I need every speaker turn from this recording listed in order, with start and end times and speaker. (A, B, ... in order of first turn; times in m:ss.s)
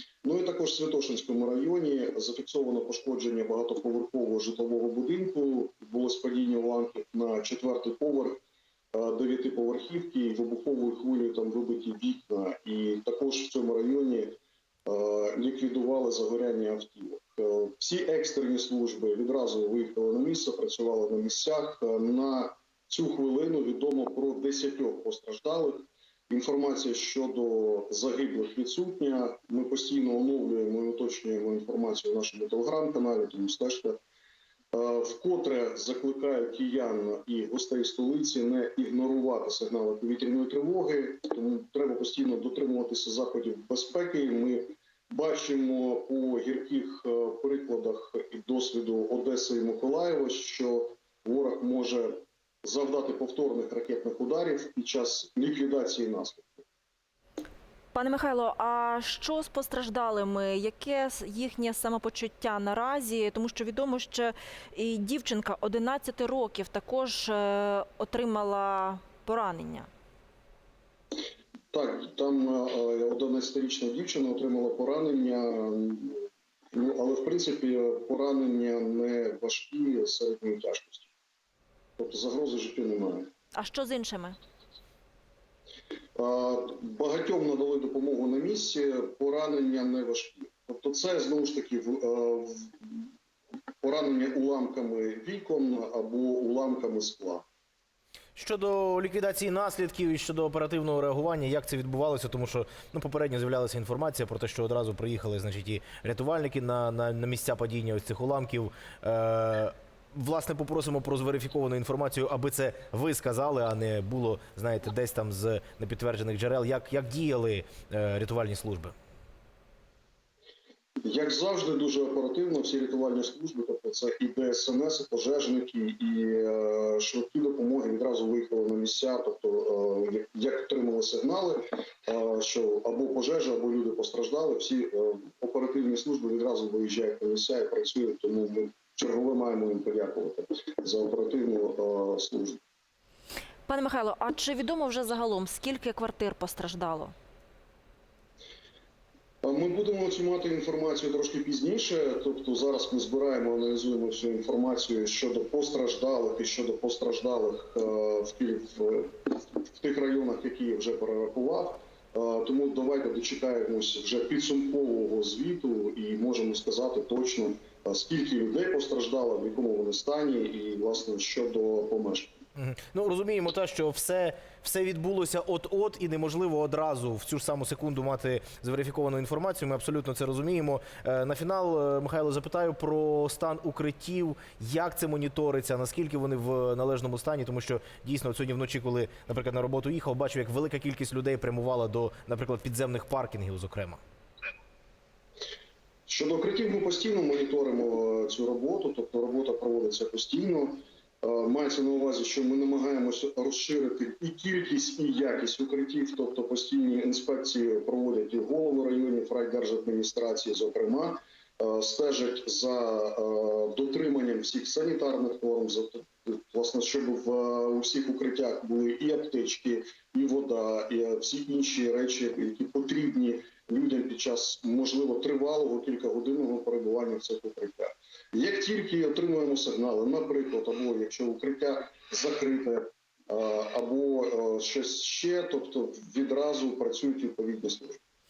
0:00.2-0:08.4 A
0:08.9-0:34.0 A
0:34.7-0:56.6 A
0:57.9-1:09.9 B
1:11.7-1:21.1 A
1:22.0-1:23.3 A
1:23.5-1:24.4 B
1:26.2-1:33.1 A
1:33.8-1:37.4 A
1:38.4-1:58.9 C
2:01.0-2:22.6 A
2:23.7-2:27.1 B
2:29.4-2:52.3 A
2:52.6-3:14.0 C
3:16.1-3:58.0 A